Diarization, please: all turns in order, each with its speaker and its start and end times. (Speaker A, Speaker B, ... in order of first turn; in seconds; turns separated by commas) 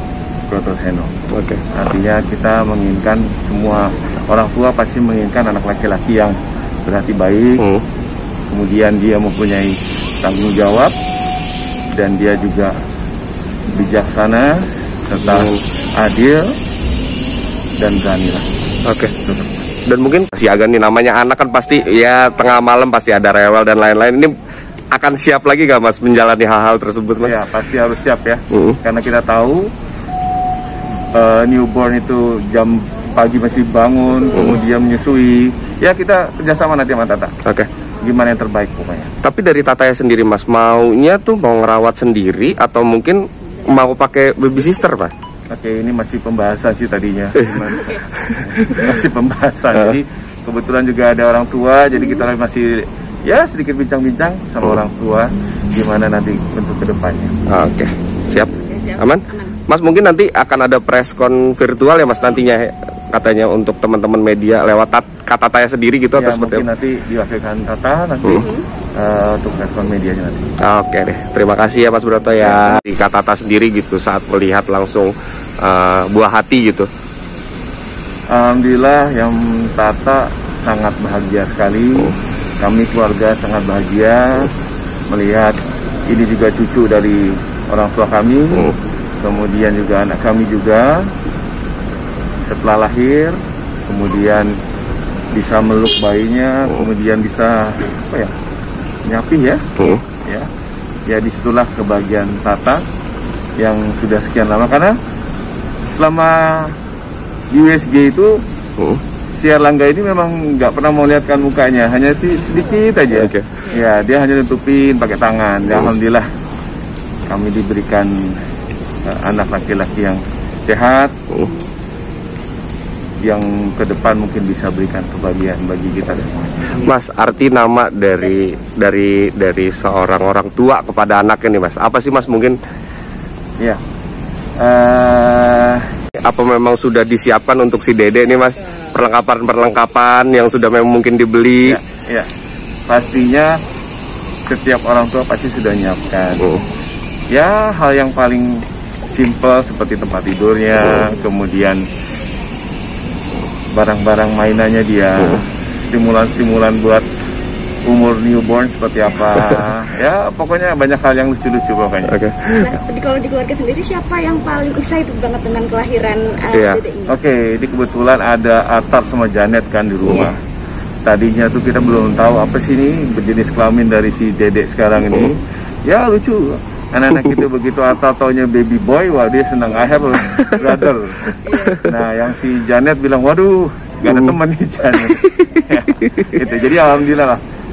Speaker A: 0.5-1.1, Speaker B: 1.3-1.6, Speaker A: 1.7-7.6, Speaker B: 7.6-7.8, Speaker A: 8.5-10.9, Speaker A: 11.9-12.8, Speaker A: 13.7-16.5, Speaker B: 15.2-15.6, Speaker A: 17.8-18.4, Speaker B: 18.9-19.1, Speaker A: 19.2-19.7, Speaker B: 19.9-24.3, Speaker B: 24.9-27.4, Speaker A: 27.2-29.7, Speaker B: 28.5-28.8, Speaker A: 31.1-37.4, Speaker B: 34.3-34.6, Speaker B: 37.4-37.7, Speaker A: 38.0-39.1, Speaker B: 39.2-45.1, Speaker A: 45.5-57.4, Speaker B: 48.2-48.9, Speaker B: 57.5-66.6, Speaker C: 58.5-59.6, Speaker A: 66.1-70.5, Speaker C: 68.3-68.6, Speaker B: 70.6-76.9, Speaker A: 72.4-72.8, Speaker A: 78.3-84.5, Speaker A: 85.1-91.1, Speaker A: 92.5-94.6, Speaker A: 95.3-98.3, Speaker A: 99.0-100.5, Speaker B: 99.8-100.0, Speaker A: 101.1-102.8, Speaker A: 103.6-105.0, Speaker A: 105.9-106.8, Speaker A: 107.5-108.4, Speaker A: 109.3-116.3, Speaker B: 113.1-113.6, Speaker A: 117.3-118.4, Speaker A: 119.0-121.2, Speaker A: 123.2-126.8, Speaker B: 126.7-132.6, Speaker A: 134.6-136.0, Speaker B: 136.1-141.8, Speaker A: 141.6-142.3, Speaker A: 142.9-143.6, Speaker A: 144.5-146.6, Speaker B: 146.4-146.7, Speaker A: 147.3-151.8, Speaker B: 150.8-151.1, Speaker A: 153.7-157.1, Speaker A: 157.8-162.2, Speaker B: 162.1-162.7, Speaker C: 162.6-167.2, Speaker B: 166.5-166.8, Speaker A: 167.1-170.4, Speaker A: 171.0-187.4, Speaker B: 177.1-177.4, Speaker C: 181.4-181.8, Speaker B: 181.5-181.9, Speaker B: 184.1-184.4, Speaker B: 185.0-186.4